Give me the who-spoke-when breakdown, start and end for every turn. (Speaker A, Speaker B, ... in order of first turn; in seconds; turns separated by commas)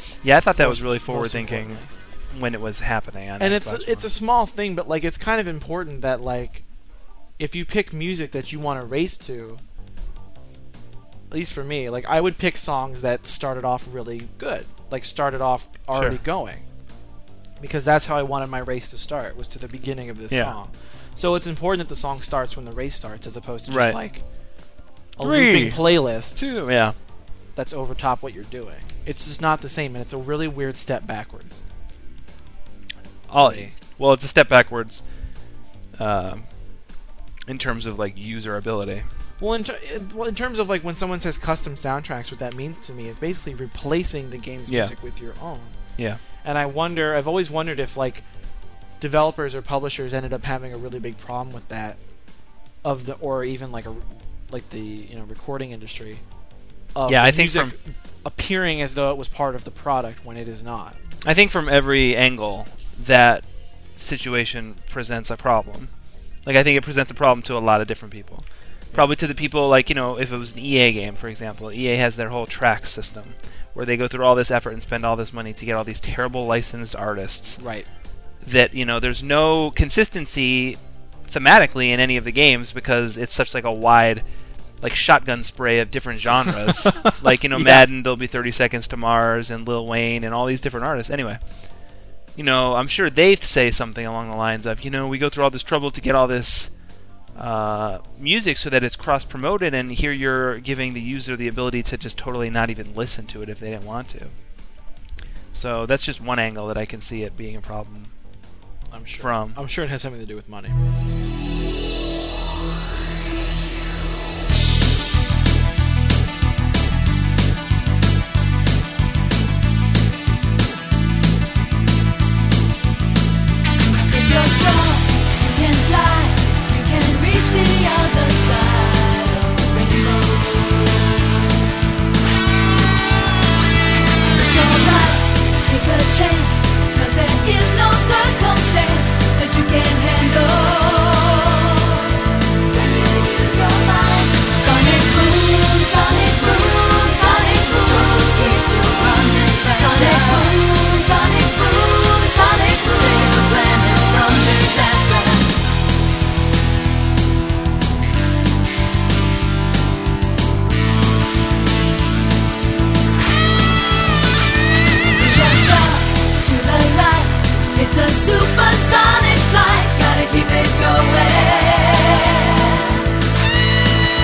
Speaker A: 0.2-4.1, Speaker B: 0.6-1.9, Speaker B: 3.4-6.6, Speaker B: 7.4-9.6, Speaker B: 11.3-16.6, Speaker A: 15.9-16.2, Speaker B: 17.6-24.2, Speaker A: 23.7-24.0, Speaker B: 25.2-26.4, Speaker A: 25.2-27.0, Speaker B: 27.6-31.6, Speaker A: 33.3-35.0, Speaker B: 33.4-33.8, Speaker A: 36.0-36.5, Speaker A: 37.5-39.1, Speaker B: 39.4-45.8, Speaker A: 44.7-44.9, Speaker B: 46.4-48.2, Speaker B: 49.0-52.0, Speaker B: 52.8-56.2, Speaker B: 56.9-61.0, Speaker A: 57.1-57.7, Speaker A: 61.2-63.5, Speaker A: 64.0-65.9, Speaker A: 66.5-77.6, Speaker B: 77.6-77.9, Speaker A: 78.4-84.2, Speaker A: 84.8-91.4, Speaker B: 87.5-87.9, Speaker A: 92.4-96.7, Speaker A: 97.3-104.3, Speaker A: 105.5-108.1, Speaker B: 108.9-110.8, Speaker A: 109.2-109.6, Speaker C: 124.1-131.5, Speaker C: 134.3-155.6, Speaker C: 165.2-173.1